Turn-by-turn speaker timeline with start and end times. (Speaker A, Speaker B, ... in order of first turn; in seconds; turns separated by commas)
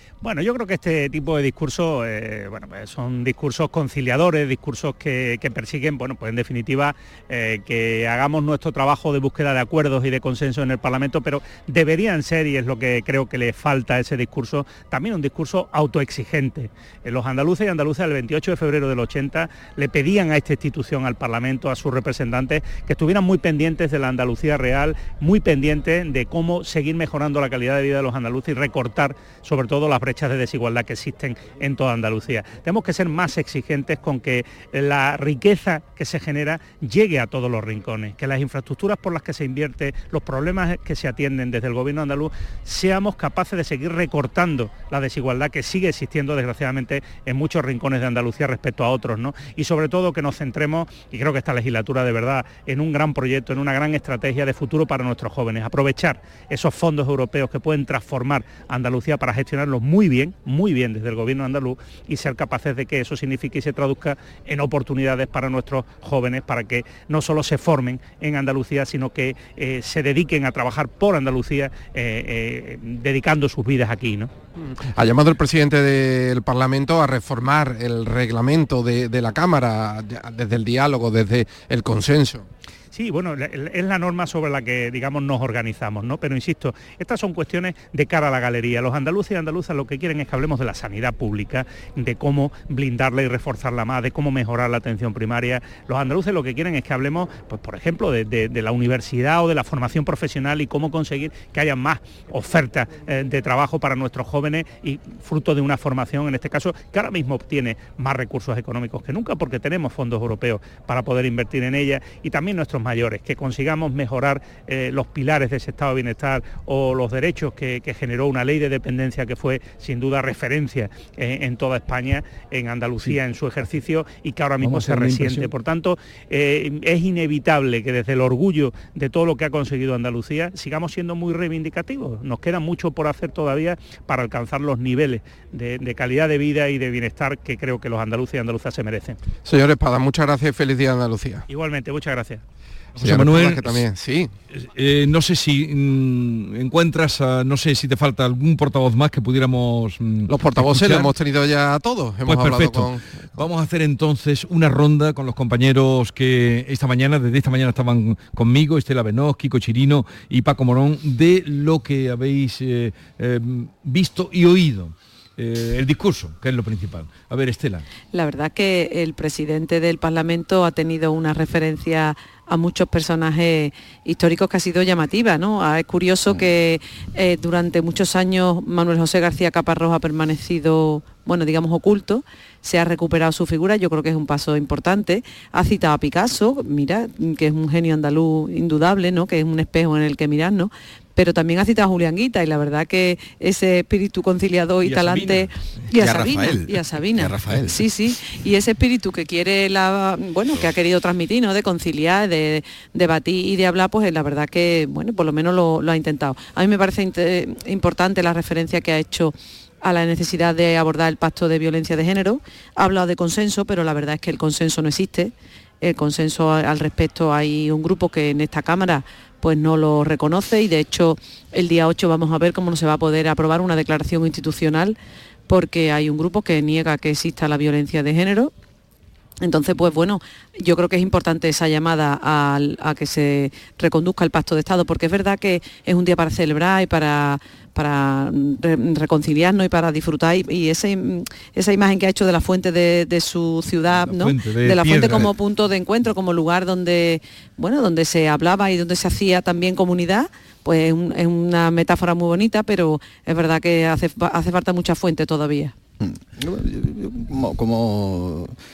Speaker A: 0.2-74.3, Speaker B: 74.6-82.5, Speaker A: 82.9-139.2, Speaker C: 124.6-125.5, Speaker B: 139.4-141.5, Speaker A: 141.5-142.4, Speaker C: 143.0-143.8, Speaker B: 143.0-144.3, Speaker C: 144.5-151.1, Speaker B: 150.3-153.0, Speaker C: 152.3-167.8, Speaker D: 168.1-225.0, Speaker C: 194.8-195.5, Speaker E: 196.0-197.8, Speaker D: 225.5-228.5, Speaker D: 229.4-255.7, Speaker C: 243.9-245.3, Speaker E: 256.0-258.6